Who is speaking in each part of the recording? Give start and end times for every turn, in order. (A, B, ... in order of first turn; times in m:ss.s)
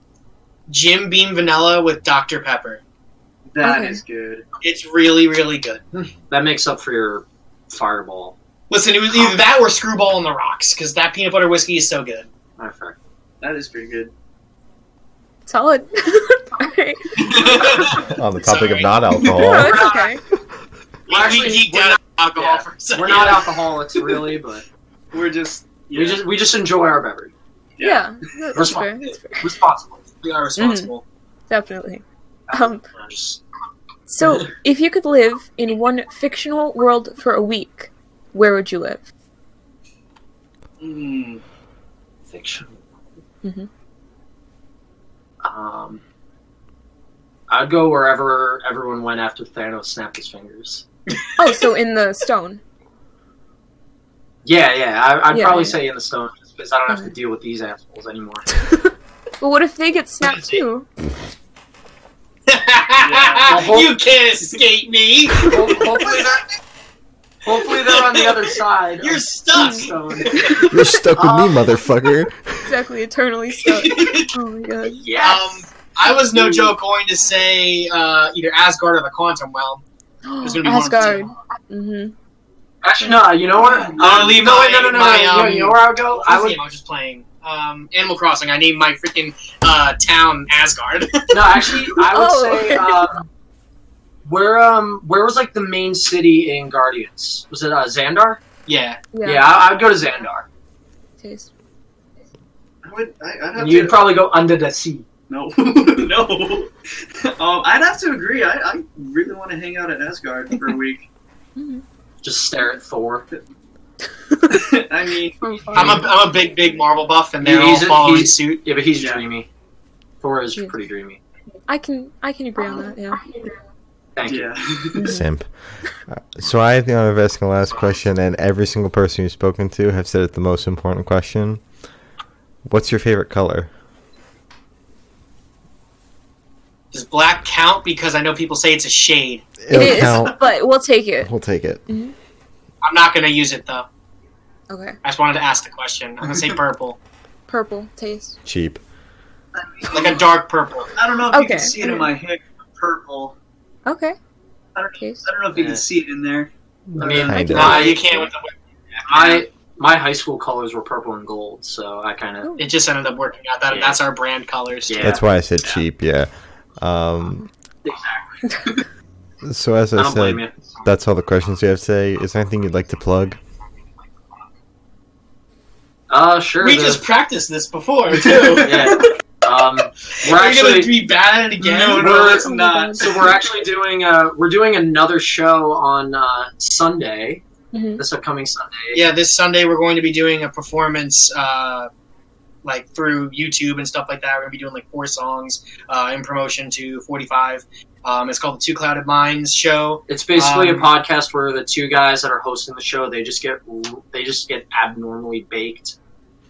0:00.7-0:02.8 A
0:03.5-0:04.4 B
0:03.6-0:04.0 C
0:04.6-0:06.1 A
0:06.3-0:08.4 D
0:08.7-0:12.3 A
0:12.6-0:13.0 D
0:13.4-0:14.1 B
0:15.5-0:18.1 C
0:17.2-0:18.1 B
0:17.5-0:19.2 A
0:18.1-0:19.8 E
0:19.3-0:20.2 C
0:19.6-0:20.1 D
0:21.1-0:24.2 A
0:21.1-0:24.6 D
0:25.1-0:26.2 B
0:25.9-0:27.3 D
0:27.8-0:28.0 B
0:27.8-0:29.6 C
0:28.5-0:28.9 D
0:29.4-0:30.0 D
0:30.2-0:31.0 A
0:30.6-0:30.9 C
0:31.5-0:32.9 C
0:32.5-0:33.4 D
0:34.1-0:39.1 C
0:40.8-0:41.4 B
0:42.3-0:43.0 D
0:45.4-0:46.0 D
0:47.5-0:50.8 D
0:51.4-0:52.6 C
0:54.4-0:58.5 D
0:55.3-0:55.8 C
0:58.6-1:00.9 C
1:02.5-1:06.4 A
1:03.0-1:03.6 B
1:03.4-1:03.9 D
1:05.4-1:06.4 D
1:07.4-1:11.7 D
1:09.0-1:10.6 A
1:09.6-1:09.9 C
1:10.7-1:12.8 E
1:12.6-1:15.0 C
1:13.8-1:14.3 A
1:15.0-1:15.6 D
1:15.2-1:19.8 A
1:20.2-1:22.1 C
1:20.4-1:21.3 A
1:22.8-1:26.6 D
1:23.9-1:24.9 B
1:23.9-1:31.7 A
1:31.3-1:33.2 D
1:31.9-1:33.1 C
1:34.2-1:38.4 D
1:38.6-1:39.0 A
1:39.1-1:39.5 C
1:39.2-1:40.5 D
1:41.2-1:41.5 C
1:42.8-1:44.1 B
1:43.6-1:45.0 D
1:45.3-1:46.7 B
1:47.2-1:51.1 B
1:51.6-1:51.8 C
1:52.2-1:53.3 D
1:54.3-1:54.7 C
1:54.5-1:56.0 B
1:55.4-1:56.1 C
1:55.8-1:58.6 A
1:57.4-1:59.5 D
1:59.0-1:59.2 B
2:00.2-2:01.2 D
2:01.7-2:03.4 C
2:04.2-2:04.5 D
2:04.2-2:05.1 B
2:04.9-2:05.3 C
2:05.1-2:11.6 E
2:12.6-2:13.7 E
2:16.9-2:19.5 A
2:19.6-2:20.4 E
2:19.7-2:21.3 C
2:19.9-2:20.3 B
2:21.2-2:21.9 E
2:21.9-2:22.1 C
2:22.8-2:23.9 A
2:24.7-2:25.0 C
2:25.0-2:27.0 A
2:27.5-2:28.4 C
2:28.4-2:28.8 E
2:29.6-2:30.2 B
2:29.9-2:30.9 A
2:31.0-2:33.4 B
2:31.3-2:32.1 C
2:33.9-2:34.2 C
2:34.8-2:37.3 B
2:35.6-2:35.8 D
2:36.9-2:37.9 E
2:37.0-2:38.3 D
2:37.3-2:38.0 C
2:37.5-2:38.5 A
2:39.0-2:42.5 D
2:39.1-2:39.4 B
2:42.6-2:45.2 A
2:43.7-2:44.0 D
2:44.9-2:45.2 D
2:45.0-2:47.5 E
2:47.8-2:48.8 D
2:49.4-2:53.4 E
2:50.0-2:50.5 D
2:56.1-2:57.0 D
2:56.6-2:58.9 A
2:58.1-2:59.1 B
2:58.6-3:01.0 D
3:00.2-3:02.1 A
3:01.6-3:03.4 B
3:02.0-3:07.4 D
3:02.3-3:03.3 C
3:07.7-3:08.0 C
3:08.0-3:09.0 D
3:08.9-3:11.9 A
3:12.6-3:20.9 A
3:20.1-3:25.9 D